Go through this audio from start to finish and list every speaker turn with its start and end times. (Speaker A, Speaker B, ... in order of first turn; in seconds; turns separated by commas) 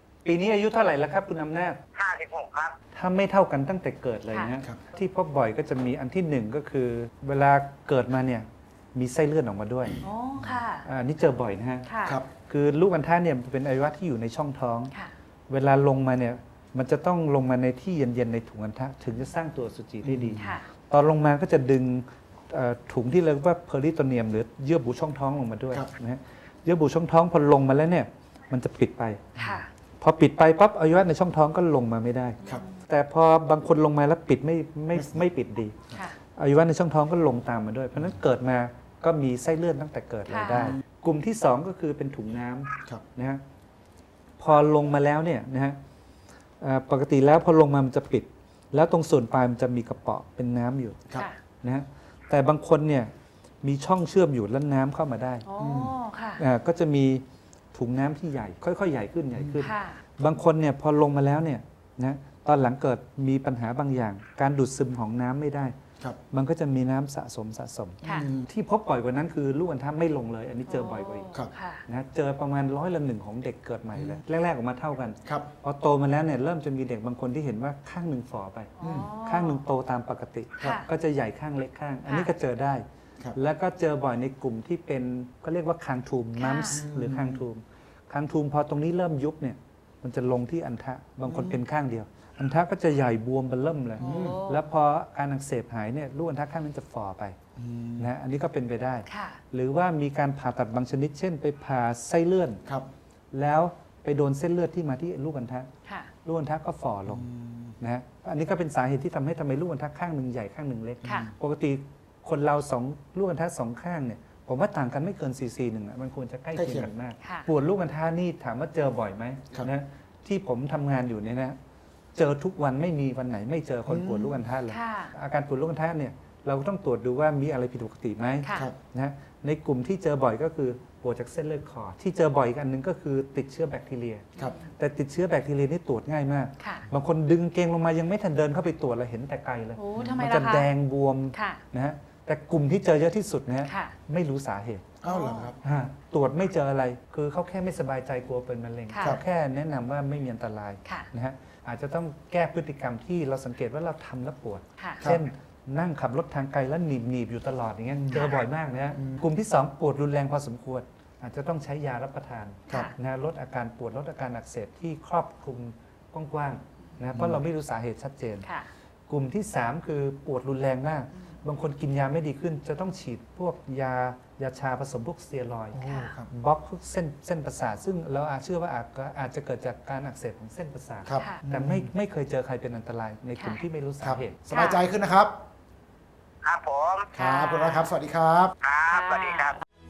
Speaker A: 0.2-1.8, Speaker B: 1.9-2.8, Speaker A: 2.9-10.0, Speaker C: 4.3-4.5, Speaker C: 10.0-10.8, Speaker A: 10.8-14.9, Speaker C: 11.8-12.2, Speaker A: 15.5-43.4, Speaker D: 20.0-20.4, Speaker C: 20.4-20.7, Speaker C: 29.4-29.7, Speaker C: 32.4-32.8, Speaker D: 34.9-35.2, Speaker C: 40.3-40.8, Speaker A: 44.4-45.8, Speaker A: 46.6-51.1, Speaker A: 51.6-55.5, Speaker C: 55.5-56.4, Speaker D: 55.6-55.9, Speaker A: 56.4-65.8, Speaker C: 59.6-60.0, Speaker A: 66.3-71.3, Speaker D: 68.0-68.5, Speaker C: 68.0-68.3, Speaker C: 70.7-71.8, Speaker A: 71.9-82.8, Speaker D: 73.9-74.2, Speaker D: 75.2-75.5, Speaker C: 78.8-79.6, Speaker D: 78.8-79.1, Speaker C: 80.6-80.9, Speaker C: 82.0-82.3, Speaker A: 83.3-97.4, Speaker C: 86.3-86.8, Speaker D: 86.7-87.4, Speaker D: 91.2-91.6, Speaker D: 94.0-94.4, Speaker C: 94.0-94.7, Speaker D: 97.5-98.1, Speaker A: 98.0-102.6, Speaker C: 99.1-99.4, Speaker A: 103.3-105.7, Speaker C: 105.8-106.1, Speaker A: 106.2-107.3, Speaker D: 107.0-107.8, Speaker A: 107.8-121.6, Speaker D: 111.0-111.3, Speaker C: 111.0-111.3, Speaker D: 116.5-116.9, Speaker C: 117.2-117.5, Speaker A: 122.1-144.9, Speaker D: 123.8-124.4, Speaker C: 124.7-125.1, Speaker C: 128.4-128.7, Speaker C: 134.4-134.6, Speaker C: 136.6-136.9, Speaker C: 139.8-140.7, Speaker D: 139.9-140.2, Speaker C: 141.3-141.6, Speaker C: 143.6-143.9, Speaker D: 145.0-145.6, Speaker C: 145.1-145.5, Speaker A: 145.6-168.5, Speaker C: 148.9-149.2, Speaker C: 154.8-155.0, Speaker D: 155.0-155.2, Speaker D: 158.9-159.2, Speaker D: 167.1-167.4, Speaker C: 168.4-168.7, Speaker A: 169.1-184.4, Speaker D: 175.7-176.3, Speaker C: 175.8-176.2, Speaker D: 181.0-181.9, Speaker C: 181.2-181.4, Speaker C: 183.4-183.6, Speaker D: 184.0-185.4, Speaker C: 184.5-184.8, Speaker B: 186.4-187.1, Speaker D: 187.1-188.5, Speaker C: 187.2-187.9, Speaker B: 188.6-189.6, Speaker C: 189.0-189.4